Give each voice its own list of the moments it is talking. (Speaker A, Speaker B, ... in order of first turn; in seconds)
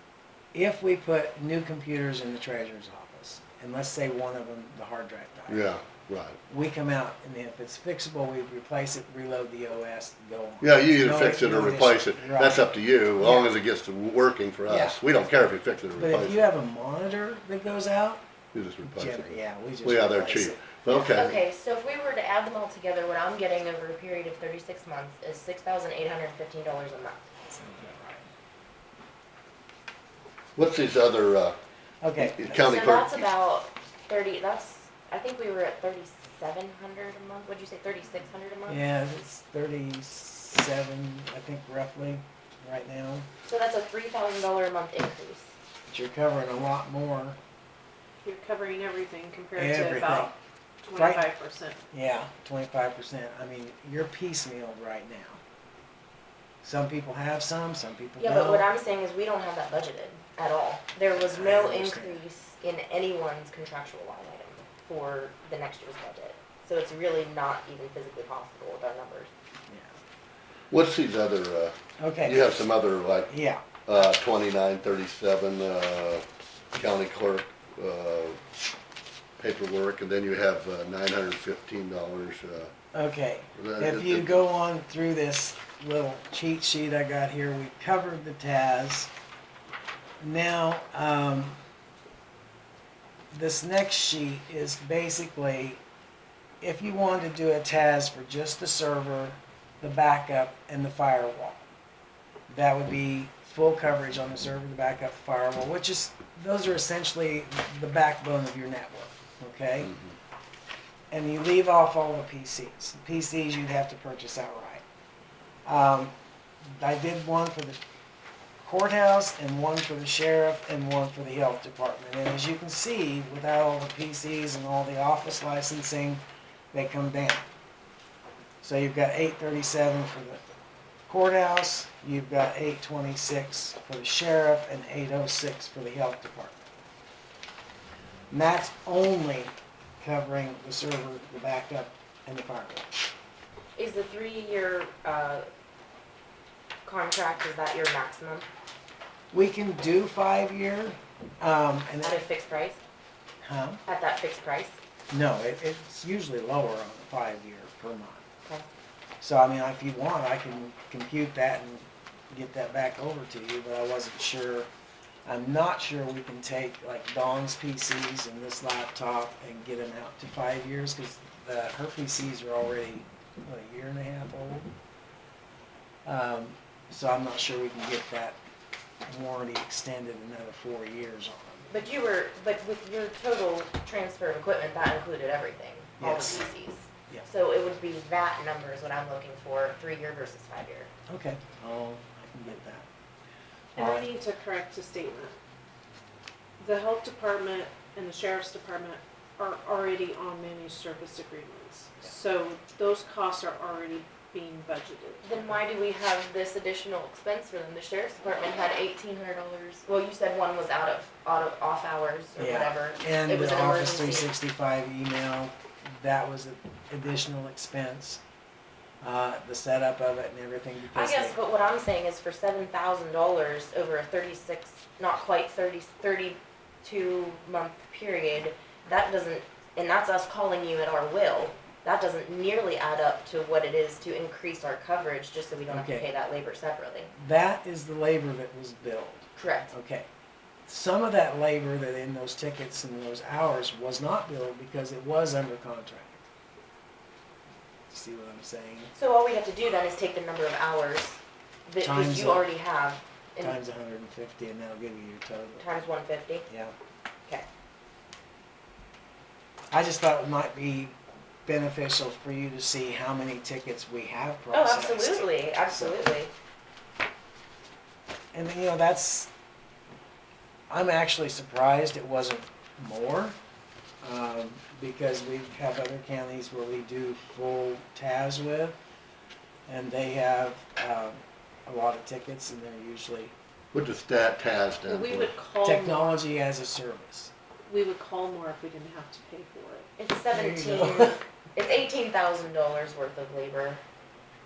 Speaker A: 0.5-5.6, 6.5-13.5, 14.7-15.0, 16.0-18.2, 18.9-21.2, 27.5-28.3, 32.0-32.6, 38.7-43.3, 45.9-47.4, 49.6-50.3, 51.0-51.3, 51.9-55.4, 56.6-58.7, 61.1-62.2, 69.7-70.0, 72.0-72.5, 73.3-73.7, 82.9-89.1, 90.2-91.6, 93.3-95.8, 96.6-101.7, 102.5-109.9, 111.1-114.8, 115.7-116.1, 116.7-117.8, 118.6-126.2, 126.7-127.5, 128.6-130.4, 131.1-136.6, 138.3-142.9, 149.3-152.2, 153.4-153.8, 155.1-158.2, 159.2-164.7, 165.3-174.7, 176.1-178.4, 179.1-181.7, 186.0-186.4, 191.1-192.9, 193.8-194.1, 212.4-218.2, 219.0-221.4, 235.7-236.1, 237.1-240.1, 240.7-246.3, 247.9-248.9, 251.8-252.5, 253.4-255.7, 256.5-256.8, 259.7-266.1, 268.3-269.3, 270.7-273.4, 274.0-278.8, 279.7-283.3, 285.6-287.3, 290.3-291.2
Speaker B: 5.5-6.4, 10.6-16.5, 18.5-21.4, 30.6-31.6, 32.2-33.2, 70.7-73.3, 73.9-78.4, 79.4-82.7, 83.6-84.4, 283.7-285.3
Speaker C: 21.1-27.3, 32.5-38.8, 43.5-45.5, 58.2-69.3, 143.8-145.5, 146.8-148.5, 152.0-152.8, 153.9-154.8, 181.7-190.9, 205.2-214.3, 220.9-237.1, 239.4-239.7, 248.9-253.6, 255.6-256.5, 264.5-266.3, 290.0-293.8
Speaker D: 48.2-51.8, 193.8-195.4, 196.6-205.3, 284.8-286.2, 287.7-289.9